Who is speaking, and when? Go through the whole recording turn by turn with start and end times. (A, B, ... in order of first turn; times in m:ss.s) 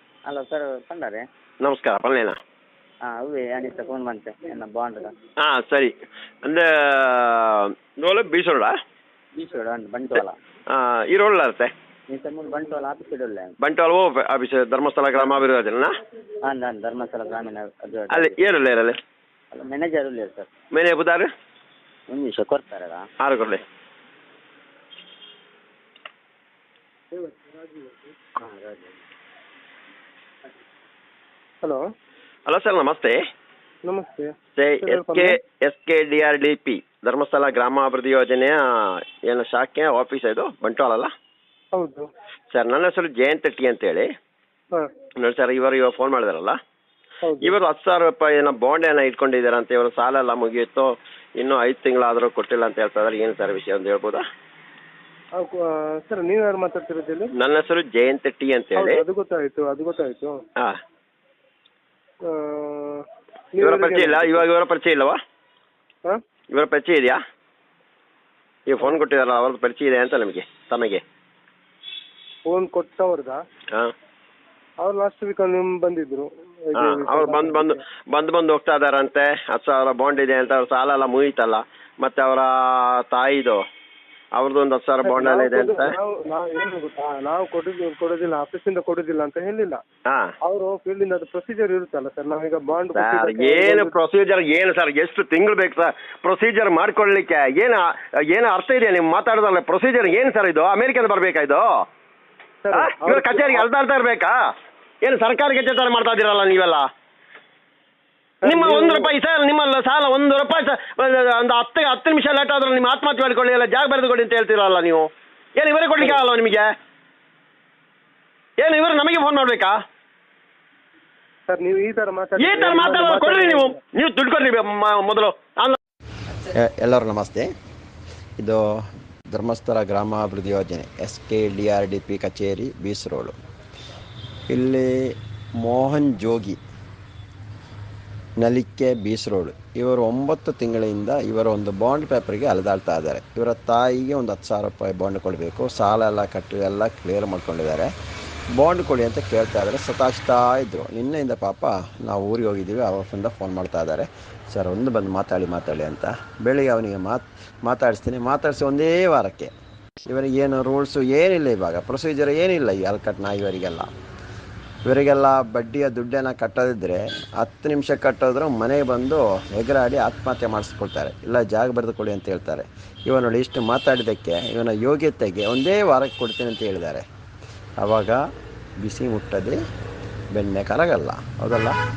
0:00.3-0:01.2 A
0:01.6-0:02.4 B
0:03.1-0:05.1 A
0:05.4-0:05.9 B
0:06.4-0:08.7 B
0:09.4-0:10.4 A
0:10.7-0:11.7 B
0:12.1-0:13.5 A
0:13.6-0:15.9 B
0:16.4-0:18.4 A
0:18.1-0:19.0 B
0:19.5-0:20.5 A
0:20.7-0:21.3 B
0:22.1-0:23.0 A
0:23.2-0:23.6 B
0:27.1-0:28.2 C
0:28.4-0:29.0 A
0:32.5-0:33.2 B
0:33.8-0:35.4 C
0:34.6-0:41.1 B
0:41.7-0:42.1 C
0:42.5-0:44.1 B
0:45.2-0:46.6 B
0:47.2-0:47.6 C
0:47.4-0:54.2 B
0:55.4-0:57.3 C
0:57.4-0:59.0 B
0:58.8-1:00.4 C
1:02.2-1:04.4 C
1:03.6-1:05.2 B
1:06.5-1:07.2 B
1:08.7-1:11.0 B
1:12.4-1:13.4 C
1:14.8-1:17.8 C
1:16.8-1:23.6 B
1:24.4-1:25.9 B
1:25.0-1:29.8 C
1:30.4-1:33.9 C
1:32.9-1:41.7 B
1:42.6-1:43.6 C
1:42.7-1:44.3 B
1:45.0-1:46.9 B
1:48.4-1:49.1 C
1:48.4-1:56.7 B
1:58.6-1:59.8 B
2:01.5-2:03.8 C
2:02.4-2:05.8 B
2:06.4-2:07.5 D
2:08.4-2:13.4 D
2:14.5-2:16.6 D
2:18.4-2:27.9 D
2:28.6-2:39.5 D
2:40.0-2:43.9 D
2:44.8-2:57.0 D
2:57.8-2:58.2 D
2:58.8-2:59.6 D
3:00.3-3:01.8 D